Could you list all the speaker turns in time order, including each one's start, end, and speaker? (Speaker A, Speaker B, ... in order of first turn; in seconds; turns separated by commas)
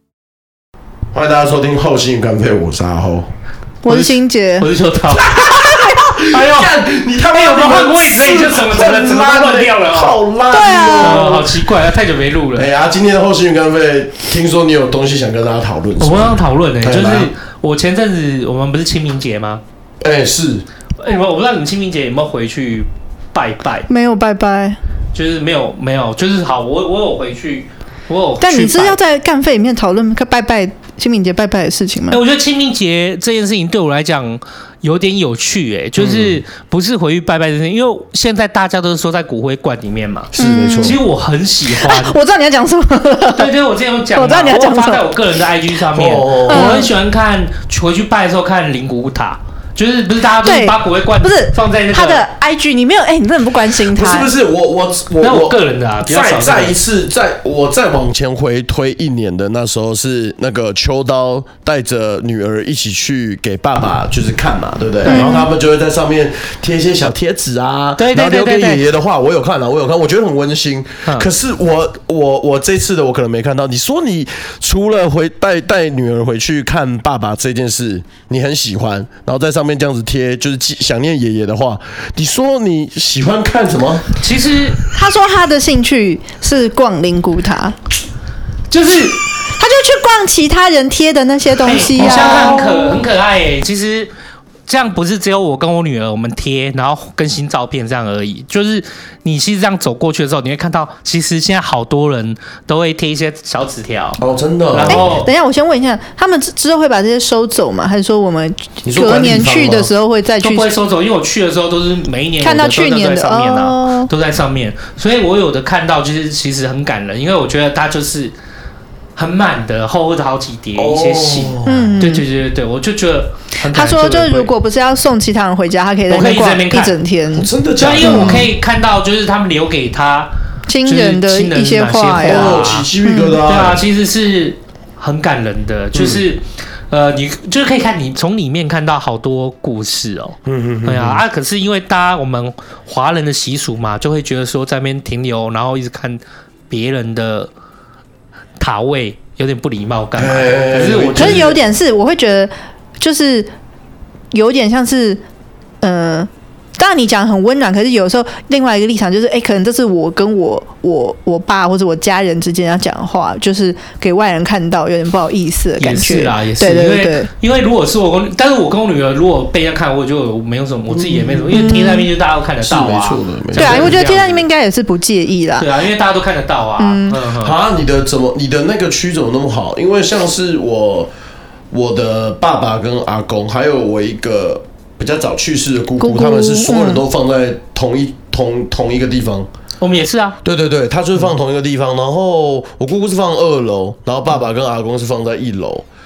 Speaker A: 1.1-3.3, Speaker B: 3.8-4.7, Speaker C: 3.9-5.4, Speaker A: 5.1-11.7, Speaker C: 6.2-6.7, Speaker C: 7.3-10.2, Speaker B: 10.5-11.3, Speaker C: 11.0-12.7, Speaker A: 12.5-17.3, Speaker C: 16.0-19.6, Speaker A: 20.0-20.6, Speaker C: 21.0-23.9, Speaker B: 23.9-24.8, Speaker C: 25.1-29.0, Speaker B: 28.4-32.2, Speaker C: 32.1-42.2, Speaker A: 36.0-36.4, Speaker A: 40.3-41.0, Speaker B: 40.4-41.0, Speaker B: 41.7-43.5, Speaker C: 43.3-52.2, Speaker B: 44.1-45.0, Speaker A: 45.9-46.8, Speaker B: 46.5-46.9, Speaker B: 50.4-54.3, Speaker A: 53.8-84.1, Speaker C: 55.2-56.8, Speaker B: 65.0-65.5, Speaker C: 68.0-68.8, Speaker C: 84.2-84.8, Speaker B: 84.9-87.8, Speaker C: 88.7-89.2, Speaker B: 89.5-92.6, Speaker C: 91.6-94.1, Speaker A: 91.7-93.0, Speaker C: 94.7-105.3, Speaker A: 104.2-105.2, Speaker B: 104.9-110.7, Speaker A: 108.8-109.9, Speaker C: 110.4-118.3, Speaker B: 112.4-114.1, Speaker C: 119.2-124.5, Speaker A: 120.8-122.0, Speaker B: 121.7-122.2, Speaker B: 123.7-128.5, Speaker C: 126.1-127.0, Speaker A: 127.3-128.5, Speaker C: 127.8-130.3, Speaker B: 130.7-133.4, Speaker C: 130.8-132.9, Speaker A: 132.2-133.8, Speaker C: 133.4-147.5, Speaker A: 135.9-136.2, Speaker A: 140.4-141.2, Speaker C: 148.6-151.6, Speaker A: 150.2-151.6, Speaker B: 151.2-153.5, Speaker B: 154.3-155.2, Speaker B: 155.8-167.3, Speaker C: 165.8-174.4, Speaker A: 170.9-171.8, Speaker B: 171.5-172.1, Speaker A: 172.6-173.9, Speaker B: 173.6-175.7, Speaker C: 175.6-177.6, Speaker B: 176.8-177.2, Speaker A: 177.4-181.1, Speaker A: 181.7-189.5, Speaker B: 186.0-187.0, Speaker C: 189.8-190.4, Speaker A: 190.4-195.8